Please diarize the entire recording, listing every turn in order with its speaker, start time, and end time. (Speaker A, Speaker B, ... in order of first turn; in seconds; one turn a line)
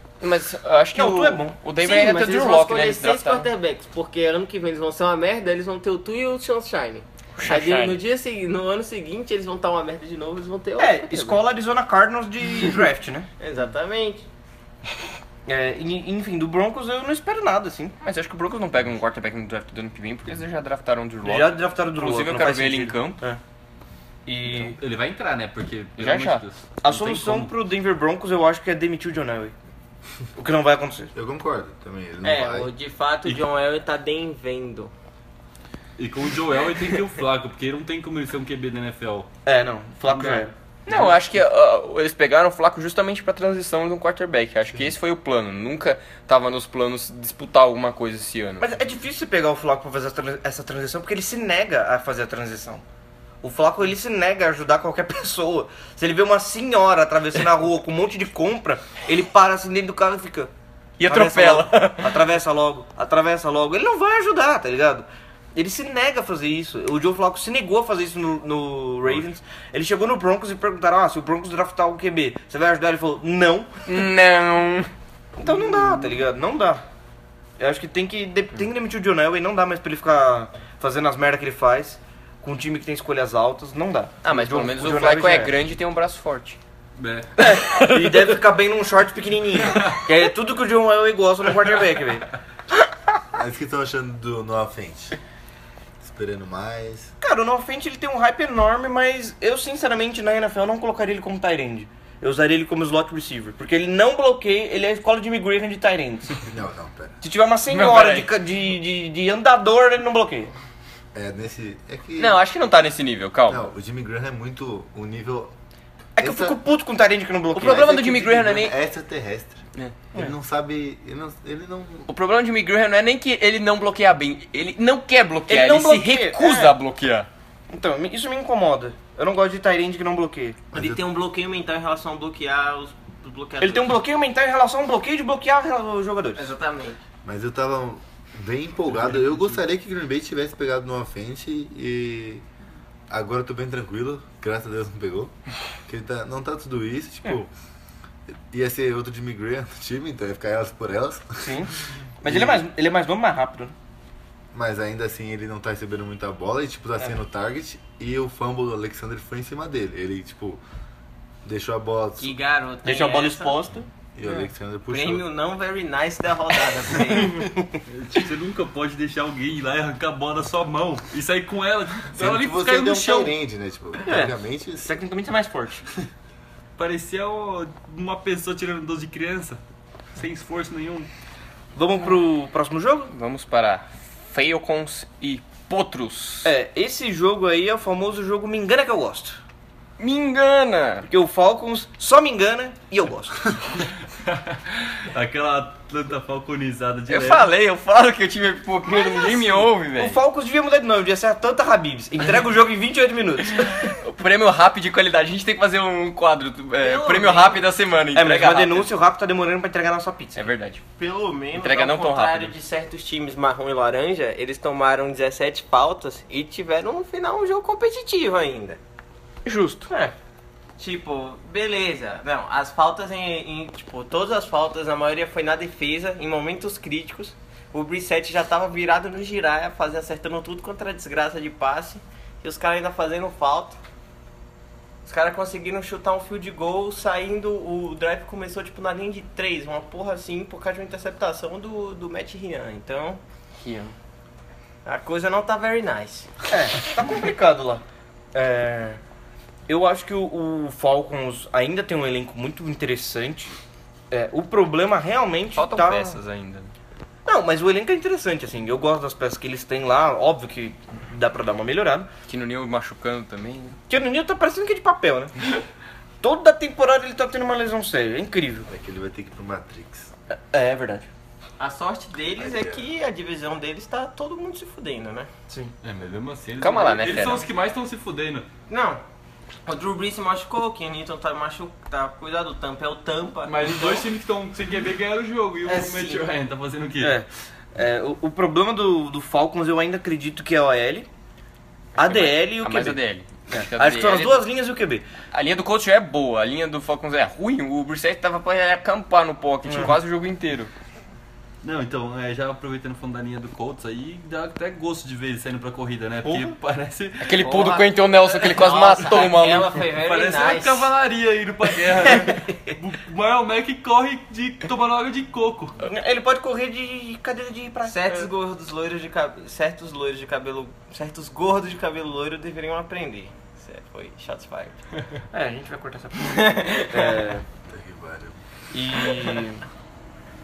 Speaker A: 0.2-3.5
Speaker B: 0.9-1.8
Speaker C: 1.8-11.4
Speaker A: 7.3-8.0
Speaker B: 10.8-13.3
Speaker C: 13.4-14.2
Speaker B: 15.4-18.0
Speaker A: 18.0-23.2
Speaker B: 21.2-23.4
Speaker B: 24.2-24.8
Speaker D: 24.7-27.5
Speaker A: 26.0-26.4
Speaker B: 26.8-29.5
Speaker B: 30.4-31.1
Speaker E: 31.1-32.7
Speaker C: 32.2-34.9
Speaker D: 36.0-39.3
Speaker B: 39.4-40.5
Speaker D: 40.1-41.1
Speaker A: 40.9-48.7
Speaker B: 48.6-52.8
Speaker B: 53.4-60.5
Speaker A: 61.0-62.2
Speaker B: 61.0-73.8
Speaker A: 73.8-74.9
Speaker B: 75.4-76.8
Speaker B: 77.6-85.5
Speaker A: 84.2-86.6
Speaker D: 87.0-87.3
Speaker B: 87.4-92.3
Speaker A: 87.5-87.9
Speaker D: 89.7-90.0
Speaker E: 93.3-95.1
Speaker E: 96.0-97.1
Speaker B: 97.2-106.4
Speaker E: 106.4-107.1
Speaker B: 107.2-110.5
Speaker A: 107.7-108.3
Speaker E: 111.1-112.4
Speaker A: 112.2-113.6
Speaker E: 113.5-115.5
Speaker E: 116.2-116.6
Speaker B: 116.2-117.9
Speaker A: 117.5-118.7
Speaker E: 117.6-119.6
Speaker E: 120.1-122.1
Speaker A: 122.1-127.3
Speaker B: 125.5-126.8
Speaker B: 127.7-130.6
Speaker E: 130.7-131.0
Speaker C: 130.7-133.9
Speaker B: 133.6-136.5
Speaker C: 136.3-137.0
Speaker E: 137.2-142.4
Speaker E: 143.1-145.3
Speaker E: 145.9-147.5
Speaker E: 148.3-151.6
Speaker B: 151.4-153.7
Speaker E: 152.2-152.6
Speaker E: 154.5-160.6
Speaker E: 161.4-162.3
Speaker C: 162.2-163.6
Speaker B: 162.8-163.9
Speaker E: 164.2-165.2
Speaker C: 164.9-167.5
Speaker B: 167.2-167.8
Speaker D: 167.9-173.3
Speaker E: 172.1-174.9
Speaker B: 174.1-175.8
Speaker D: 176.8-179.6
Speaker D: 180.1-181.1
Speaker B: 181.7-183.1
Speaker A: 183.1-186.5
Speaker B: 186.4-189.4
Speaker A: 190.0-191.1
Speaker B: 191.1-193.5
Speaker D: 194.2-197.5
Speaker A: 197.1-200.2
Speaker B: 198.8-203.9
Speaker A: 203.6-208.9
Speaker C: 206.8-207.6
Speaker B: 208.1-210.5
Speaker A: 210.3-210.8
Speaker C: 211.0-218.8
Speaker A: 211.6-212.6
Speaker B: 219.4-219.9
Speaker C: 219.9-220.1
Speaker C: 220.8-233.8
Speaker C: 235.0-243.2
Speaker A: 243.6-243.9
Speaker C: 244.8-246.3
Speaker B: 246.5-249.0
Speaker B: 249.7-253.6
Speaker B: 254.1-256.2
Speaker A: 255.6-256.7
Speaker B: 257.2-262.1
Speaker A: 262.3-263.8
Speaker B: 263.9-265.3
Speaker B: 266.2-268.7
Speaker E: 268.7-270.1
Speaker B: 270.3-271.1
Speaker C: 271.6-275.3
Speaker E: 272.4-272.8
Speaker B: 275.5-275.7
Speaker D: 275.8-278.5
Speaker A: 276.6-277.5
Speaker C: 278.7-279.0
Speaker C: 279.6-284.1
Speaker D: 283.4-287.2
Speaker C: 285.6-286.3
Speaker B: 287.0-291.1
Speaker A: 292.0-294.4
Speaker B: 292.0-295.1
Speaker A: 295.3-300.7
Speaker B: 299.7-299.9
Speaker D: 301.6-307.8
Speaker B: 306.2-306.5
Speaker A: 307.2-309.8
Speaker C: 307.4-310.9
Speaker D: 309.9-315.8
Speaker B: 315.8-318.3
Speaker C: 317.8-324.8
Speaker B: 325.3-327.4
Speaker C: 326.2-327.1
Speaker E: 327.7-328.4
Speaker B: 328.7-329.6